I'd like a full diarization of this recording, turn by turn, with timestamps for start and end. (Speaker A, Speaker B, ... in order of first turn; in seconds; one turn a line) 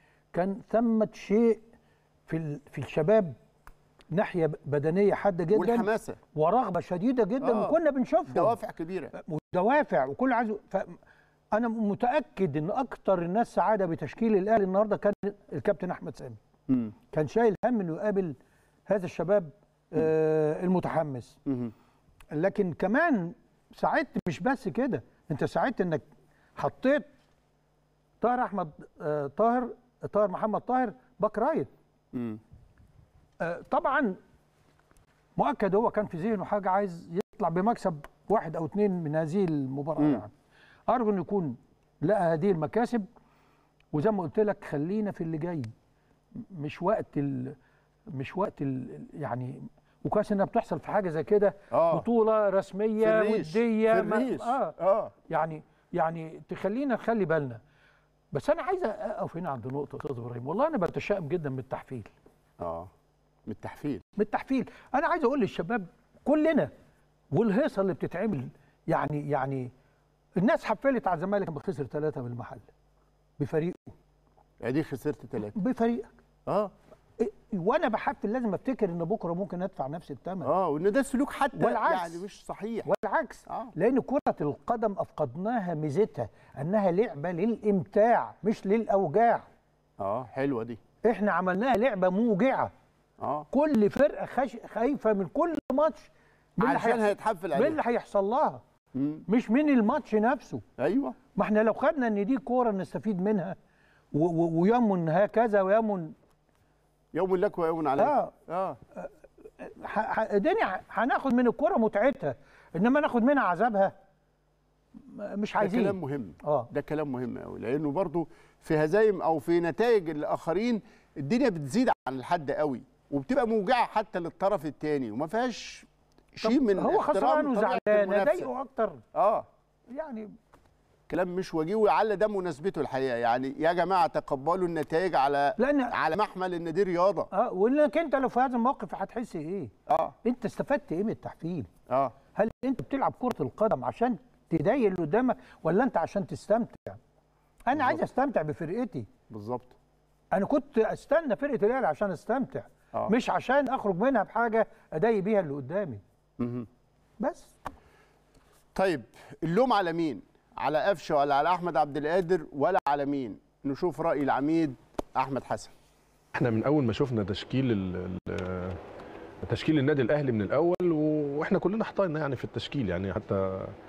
Speaker A: 0.3-1.6
Speaker A: 2.3-3.4
Speaker A: 4.1-8.6
Speaker B: 5.5-6.2
Speaker B: 7.4-7.8
Speaker B: 8.3-9.1
Speaker A: 9.2-11.0
Speaker A: 11.5-16.4
Speaker B: 16.7-16.9
Speaker A: 17.1-18.4
Speaker A: 18.9-21.4
Speaker B: 21.5-21.7
Speaker A: 22.3-26.0
Speaker A: 26.6-27.1
Speaker A: 28.2-31.7
Speaker B: 32.1-32.4
Speaker A: 33.4-34.2
Speaker A: 35.4-40.3
Speaker A: 40.9-43.1
Speaker A: 43.9-45.7
Speaker A: 46.4-47.6
Speaker A: 48.1-54.8
Speaker B: 51.7-52.1
Speaker B: 53.0-55.1
Speaker A: 55.3-57.6
Speaker A: 58.3-62.1
Speaker B: 62.6-62.9
Speaker B: 63.5-64.0
Speaker A: 64.2-66.7
Speaker A: 67.3-69.7
Speaker A: 70.4-72.7
Speaker A: 73.4-74.0
Speaker B: 74.6-75.6
Speaker A: 75.4-76.1
Speaker B: 76.5-76.7
Speaker A: 77.2-80.5
Speaker B: 80.4-82.9
Speaker A: 81.5-82.2
Speaker A: 82.9-89.5
Speaker B: 83.5-83.7
Speaker B: 90.0-90.8
Speaker A: 91.0-92.7
Speaker B: 93.2-93.5
Speaker A: 93.5-98.6
Speaker B: 96.6-97.8
Speaker B: 98.9-99.2
Speaker A: 99.3-100.6
Speaker B: 100.8-101.2
Speaker A: 101.3-103.6
Speaker A: 104.1-106.1
Speaker B: 107.1-108.8
Speaker A: 108.0-108.3
Speaker A: 109.0-113.9
Speaker A: 115.0-116.7
Speaker B: 115.6-128.5
Speaker A: 126.4-129.0
Speaker B: 129.1-129.4
Speaker A: 129.9-130.3
Speaker B: 131.1-137.3
Speaker A: 135.6-135.9
Speaker A: 137.3-139.7
Speaker B: 139.9-140.2
Speaker A: 140.2-141.7
Speaker B: 141.9-142.2
Speaker A: 142.3-147.0
Speaker A: 147.7-149.1
Speaker B: 149.3-149.8
Speaker A: 150.3-156.0
Speaker B: 156.4-156.7
Speaker A: 157.2-157.5
Speaker B: 158.7-165.7
Speaker C: 166.3-168.8
Speaker C: 169.4-173.7